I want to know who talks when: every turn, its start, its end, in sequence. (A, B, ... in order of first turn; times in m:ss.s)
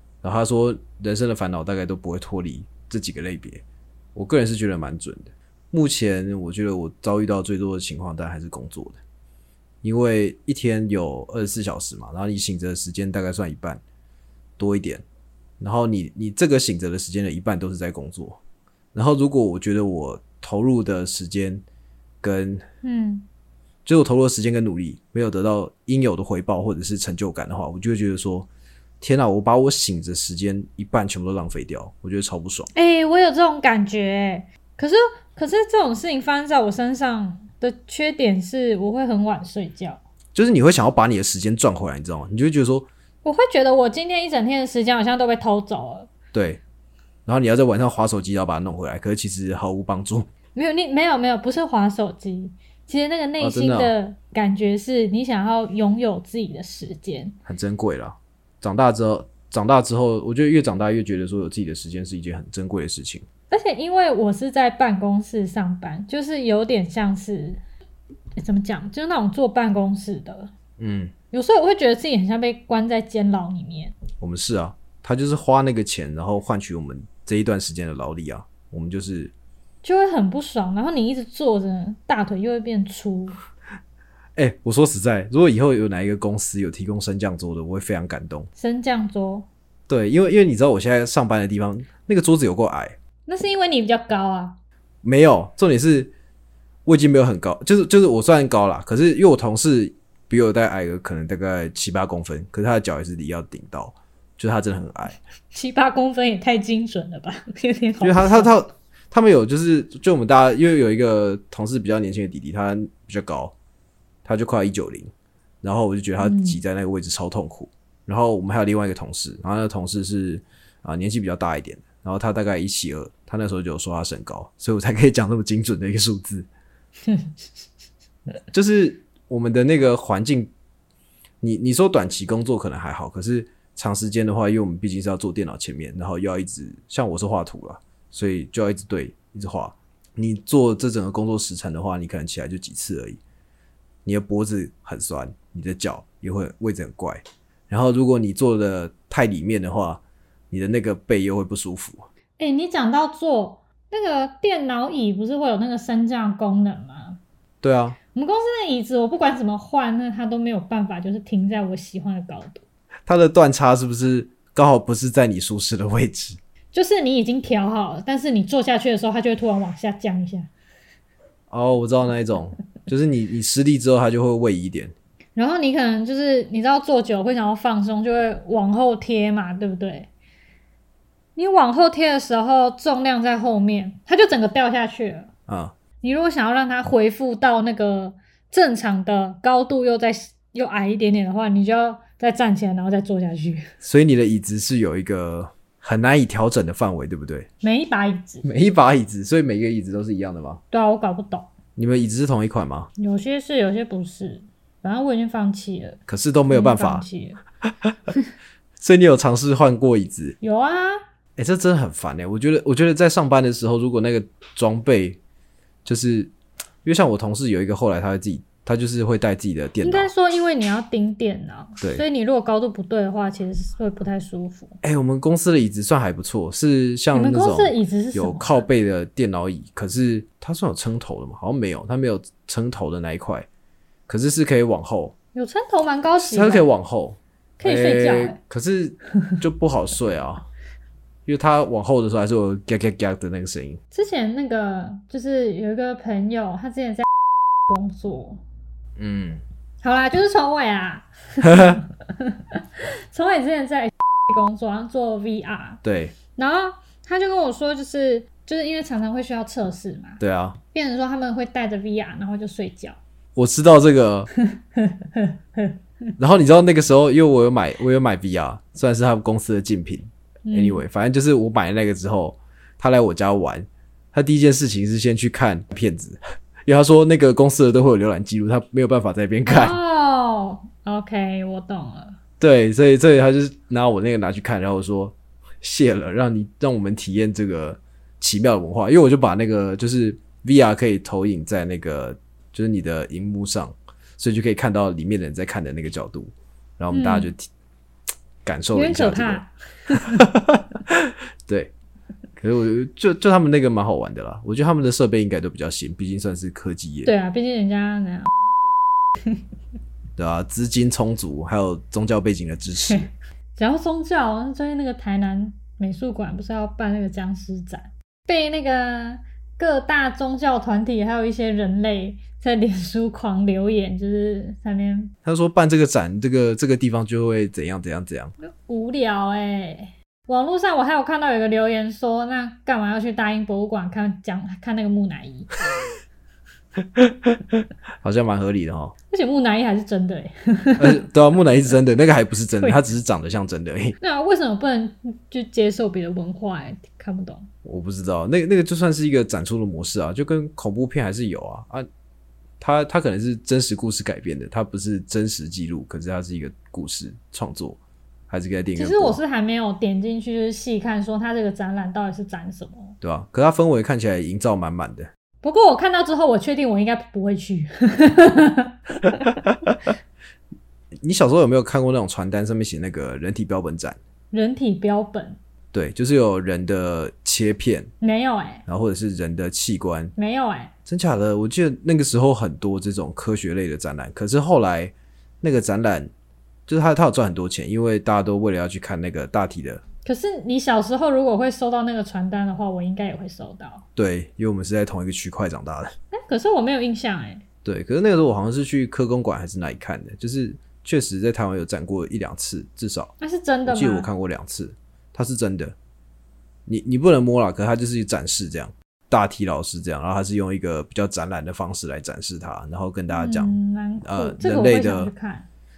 0:00.2-0:03.6 A
0:04.2-0:09.0 A
0:09.8-0:13.8 A
0:14.6-0:15.0 A
0:15.6-0:18.4 A
0:18.9-0:21.6 A
0:22.2-0:22.6 A
0:22.8-0:23.3 B
0:23.8-0:28.5 A
0:29.0-0:32.7 A
0:32.7-0:40.0 B
0:40.4-0:42.9 A
0:43.2-0:46.1 B
0:46.3-0:46.6 A
0:47.3-0:50.3 A
0:50.6-0:57.4 B
0:53.4-0:53.9 A
0:57.5-1:03.3 A
1:03.5-1:07.6 B
1:08.4-1:10.5 B
1:10.8-1:11.1 A
1:11.3-1:14.0 B
1:14.2-1:19.3 A
1:19.8-1:23.4 B
1:24.4-1:28.5 A
1:28.6-1:29.5 B
1:29.9-1:33.0 A
1:33.3-1:34.6 B
1:35.0-1:36.1 A
1:36.9-1:45.2 A
1:45.5-1:48.5 B
1:48.0-1:53.5 A
1:54.2-2:06.5 A
1:56.2-1:56.6 B
2:08.5-2:10.5 A
2:11.4-2:23.2 A
2:24.0-2:32.1 A
2:32.4-2:37.2 B
2:37.6-2:38.0 A
2:38.1-2:42.6 B
2:43.1-2:46.4 A
2:46.7-2:50.5 B
2:51.5-2:54.9 A
2:55.4-3:00.1 B
3:01.4-3:05.3 B
3:05.5-3:05.8 A
3:06.0-3:13.7 B
3:13.8-3:17.5 A
3:17.6-3:18.5 B
3:18.4-3:20.6 A
3:20.7-3:21.5 B
3:21.8-3:22.9 A
3:23.0-3:27.4 B
3:26.1-3:27.1 A
3:28.8-3:30.4 A
3:30.4-3:31.0 B
3:31.4-3:35.2 A
3:35.8-3:36.3 A
3:36.8-3:40.1 A
3:39.8-3:44.8 B
3:44.8-3:53.5 A
3:47.1-3:48.6 B
3:54.1-3:55.2 A
3:55.3-3:56.7 B
3:56.2-4:00.5 A
3:57.6-3:58.4 B
4:01.3-4:03.8 A
4:03.9-4:08.4 B
4:09.0-4:09.4 A
4:09.8-4:15.8 B
4:11.4-4:11.8 A
4:15.8-4:16.2 A
4:16.3-4:20.2 B
4:20.2-4:20.6 A
4:20.7-4:23.0 B
4:23.4-4:24.3 A
4:24.5-4:25.8 B
4:26.2-4:39.8 A
4:30.5-4:30.8 B
4:39.5-4:42.2 B
4:42.4-4:57.5 A
4:56.9-4:57.3 B
4:58.4-5:01.7 A
4:58.7-5:00.2 B
5:02.4-5:07.1 A
5:07.0-5:08.5 B
5:10.2-5:13.1 A
5:12.7-5:25.1 B
5:25.2-5:28.3 A
5:28.4-5:35.6 B
5:36.8-5:39.0 A
5:39.1-5:41.1 B
5:40.8-5:44.0 A
5:44.0-5:47.5 B
5:47.6-5:51.9 A
5:52.6-5:57.8 A
5:58.3-5:59.2 A
5:58.8-6:03.0 B
6:03.0-6:05.1 A
6:05.4-6:09.4 B
6:09.4-6:09.8 A
6:11.0-6:14.0 A
6:14.3-6:15.4 B
6:15.7-6:17.9 A
6:18.0-6:18.6 B
6:18.7-6:20.1 A
6:20.2-6:20.7 B
6:20.9-6:26.1 A
6:26.7-6:29.8 A
6:30.0-6:33.9 B
6:34.0-6:35.9 A
6:36.1-6:37.4 B
6:37.6-6:43.1 A
6:43.2-6:44.1 B
6:43.7-6:45.8 A
6:46.7-6:55.1 A
6:53.1-6:55.5 B